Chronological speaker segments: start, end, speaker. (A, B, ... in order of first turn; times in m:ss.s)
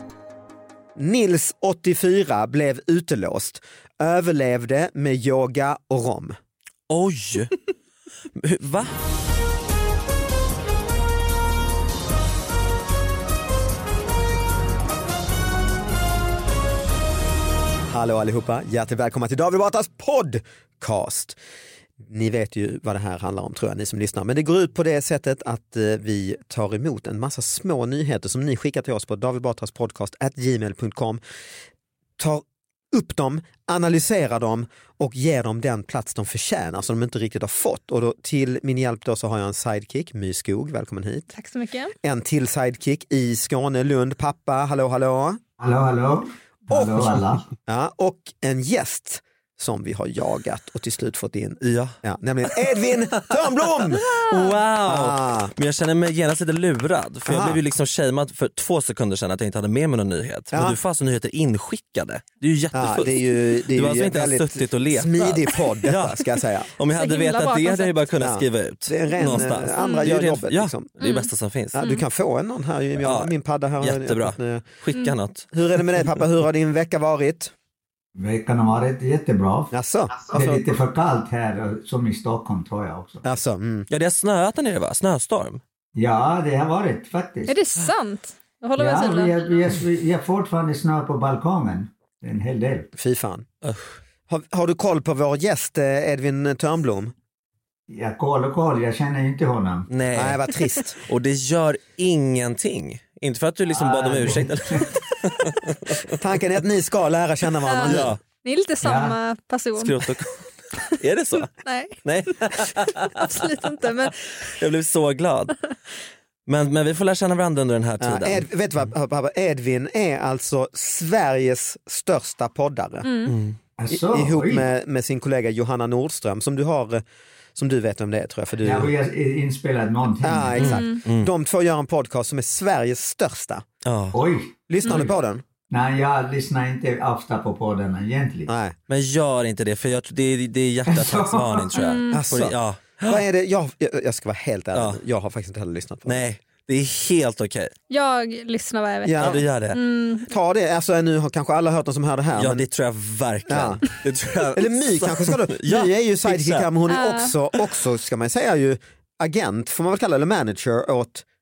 0:01.0-0:06.4 A
0:06.9-0:07.6 B
0:08.4-0:08.9 B
0:17.9-0:21.4 A
0:22.0-0:31.2 A
0:32.2-0:41.3 A
0:41.3-0:42.0 C
0:42.0-0:45.4 A
0:45.6-0:47.5 D
0:46.7-0:55.5 A
0:51.6-1:11.8 B
0:57.3-0:57.6 A
1:00.5-1:00.8 A
1:02.7-1:06.7 A
1:06.9-1:08.0 C
1:08.2-1:10.9 A
1:09.2-1:10.1 C
1:11.0-1:12.0 C
1:11.7-1:14.6 A
1:13.0-1:16.0 B
1:15.5-1:17.5 A
1:18.2-1:23.2 D
1:19.7-1:20.6 A
1:23.2-1:23.9 A
1:23.9-1:25.6 B
1:26.0-1:27.5 D
1:27.5-1:29.8 C
1:28.8-1:32.9 D
1:32.9-1:33.5 A
1:33.6-1:34.0 B
1:34.3-1:37.1 A
1:37.9-1:39.9 D
1:39.9-1:46.2 B
1:40.1-1:41.0 A
1:43.7-1:45.0 D
1:46.1-1:48.2 A
1:47.6-1:50.1 C
1:47.8-1:48.2 B
1:48.8-1:49.2 D
1:49.8-1:53.6 B
1:51.6-1:54.5 C
1:54.5-1:55.6 B
1:56.5-1:58.5 B
1:58.0-2:03.1 A
2:03.0-2:03.4 C
2:03.3-2:03.6 B
2:03.8-2:04.7 D
2:03.9-2:07.0 A
2:07.6-2:08.9 A
2:08.6-2:10.8 D
2:10.2-2:13.6 A
2:10.6-2:11.3 B
2:10.6-2:11.0 C
2:13.8-2:14.2 B
2:14.1-2:15.1 D
2:14.7-2:15.4 A
2:15.7-2:18.5 D
2:18.5-2:18.8 A
2:18.9-2:23.2 B
2:20.9-2:21.8 D
2:21.8-2:22.3 C
2:22.1-2:26.3 A
2:24.7-2:25.0 B
2:26.1-2:27.7 B
2:27.9-2:30.3 C
2:29.0-2:29.4 A
2:29.2-2:29.8 B
2:30.2-2:32.6 A
2:32.4-2:36.7 B
2:33.5-2:33.8 A
2:34.5-2:41.2 A
2:36.9-2:37.4 C